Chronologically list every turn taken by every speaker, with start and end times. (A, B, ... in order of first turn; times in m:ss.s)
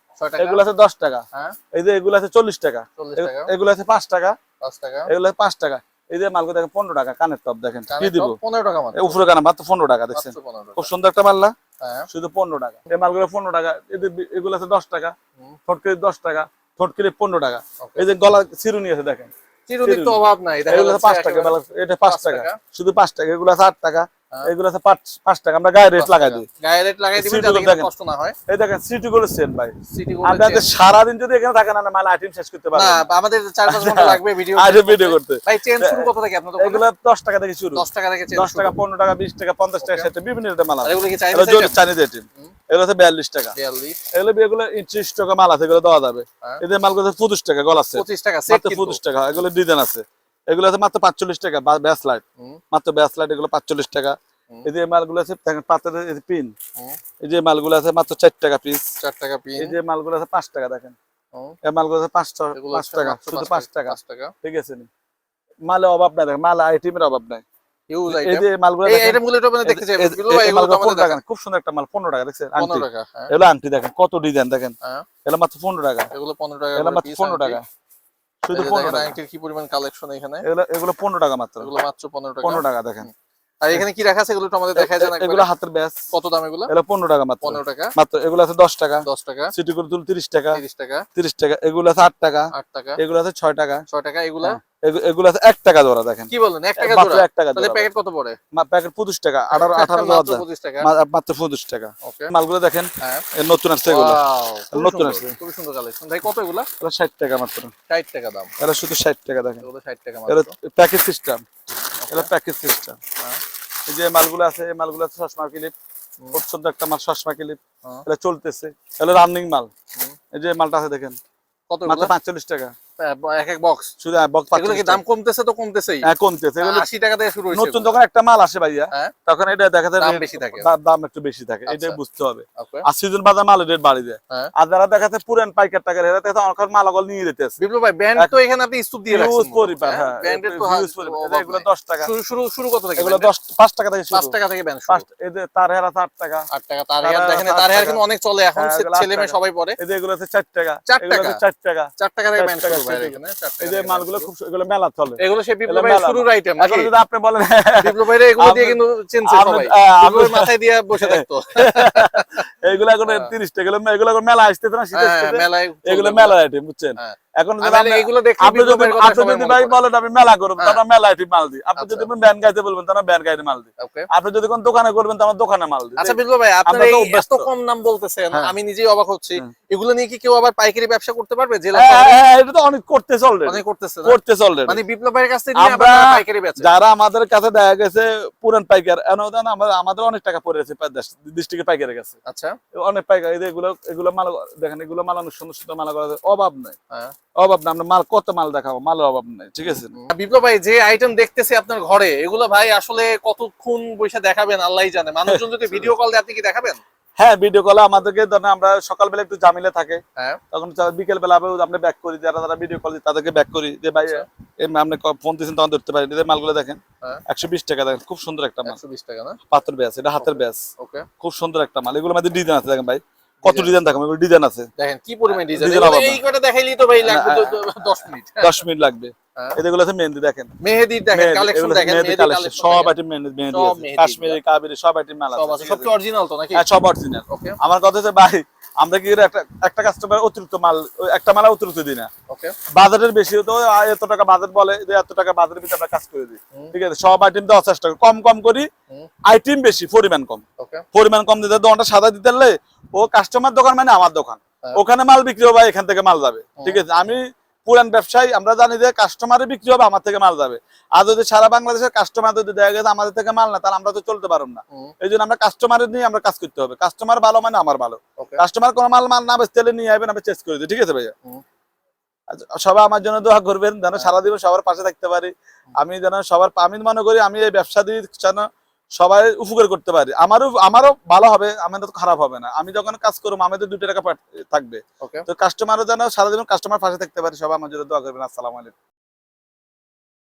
0:00.2-0:00.6 A
0:00.4-0:04.4 B
0:03.0-0:03.5 A
0:04.6-0:05.1 A
0:05.1-0:08.4 B
0:07.9-0:09.2 A
0:09.0-0:11.5 B
0:10.1-0:10.9 A
0:11.8-0:12.1 A
0:12.1-0:15.2 B
0:15.7-0:19.3 B
0:17.8-0:18.1 A
0:19.7-0:22.6 A
0:19.8-0:26.5 B
0:26.0-0:28.4 A
0:27.2-0:27.9 B
0:28.5-0:33.0 B
0:29.9-0:30.7 A
0:32.8-0:36.8 A
0:33.7-0:43.6 B
0:37.8-0:38.8 A
0:39.8-0:40.1 A
0:40.8-0:41.8 A
0:43.6-0:44.0 A
0:44.1-0:56.5 B
0:48.0-0:49.0 A
0:57.2-0:58.9 B
0:59.0-0:59.8 A
0:59.6-1:01.0 B
1:01.6-1:04.9 B
1:02.5-1:04.3 A
1:05.7-1:07.4 B
1:07.9-1:11.2 A
1:08.1-1:14.7 B
1:12.6-1:13.3 A
1:15.2-1:16.1 B
1:16.1-1:17.6 A
1:16.8-1:17.6 B
1:18.4-1:19.2 B
1:18.5-1:20.4 A
1:20.4-1:21.7 B
1:21.6-1:23.1 A
1:22.4-1:23.1 B
1:23.6-1:25.5 A
1:24.8-1:26.0 B
1:26.1-1:26.7 A
1:26.7-1:30.6 B
1:27.4-1:28.0 A
1:29.0-1:29.5 A
1:30.5-1:31.0 A
1:31.2-1:33.8 B
1:32.5-1:33.0 A
1:33.9-1:34.6 A
1:34.4-1:37.9 B
1:36.3-1:38.4 A
1:38.5-1:44.2 B
1:39.5-1:40.9 A
1:42.0-1:42.3 A
1:43.0-1:43.3 A
1:43.9-1:46.7 A
1:44.7-1:45.3 B
1:46.8-1:47.7 B
1:47.9-1:48.5 A
1:48.6-1:49.6 B
1:49.6-1:50.5 A
1:50.3-1:51.4 B
1:52.0-1:52.3 A
1:52.1-1:53.0 B
1:53.9-1:55.7 B
1:56.3-1:59.7 B
2:00.3-2:01.2 B
2:01.7-2:02.1 A
2:01.9-2:02.7 B
2:03.0-2:03.9 A
2:04.0-2:05.0 B
2:04.5-2:06.1 A
2:06.0-2:06.9 B
2:06.6-2:08.0 A
2:07.5-2:17.6 B
2:10.0-2:10.7 A
2:11.7-2:12.0 A
2:12.6-2:12.9 A
2:17.6-2:23.3 A
2:19.1-2:22.1 B
2:23.0-2:24.4 B
2:24.1-2:25.0 A
2:24.9-2:26.5 B
2:26.5-2:29.8 A
2:27.0-2:28.0 B
2:28.6-2:57.5 B
2:30.9-2:31.4 A
2:32.0-2:34.3 A
2:35.2-2:36.9 A
2:37.8-2:42.4 A
2:43.1-2:43.3 A
2:44.9-2:46.4 A
2:47.0-2:49.8 A
2:51.8-2:52.1 A
2:53.8-2:54.1 A
2:56.0-3:02.2 A
3:01.7-3:04.8 B
3:03.5-3:06.7 A
3:05.6-3:12.2 B
3:12.3-3:12.6 A
3:12.7-3:16.8 B
3:17.4-3:19.9 B
3:19.7-3:26.8 A
3:25.3-3:25.9 B
3:27.2-3:30.0 B
3:30.5-3:38.8 B
3:38.6-3:39.4 A
3:39.5-3:40.6 B
3:40.2-3:41.1 A
3:41.2-3:44.7 B
3:43.4-3:43.8 A
3:44.8-3:48.6 A
3:45.3-3:46.2 B
3:47.0-3:47.6 B
3:48.4-3:50.5 B
3:50.6-3:52.9 A
3:51.1-3:55.9 B
3:53.5-3:54.4 A
3:55.3-3:56.6 A
3:56.5-4:02.1 B
3:57.3-3:57.6 A
4:02.3-4:02.6 A
4:02.7-4:08.7 B
4:09.3-4:31.1 B
4:10.6-4:10.8 A
4:16.6-4:16.8 A
4:32.3-4:38.4 B
4:39.0-4:48.7 B
4:45.0-4:45.3 A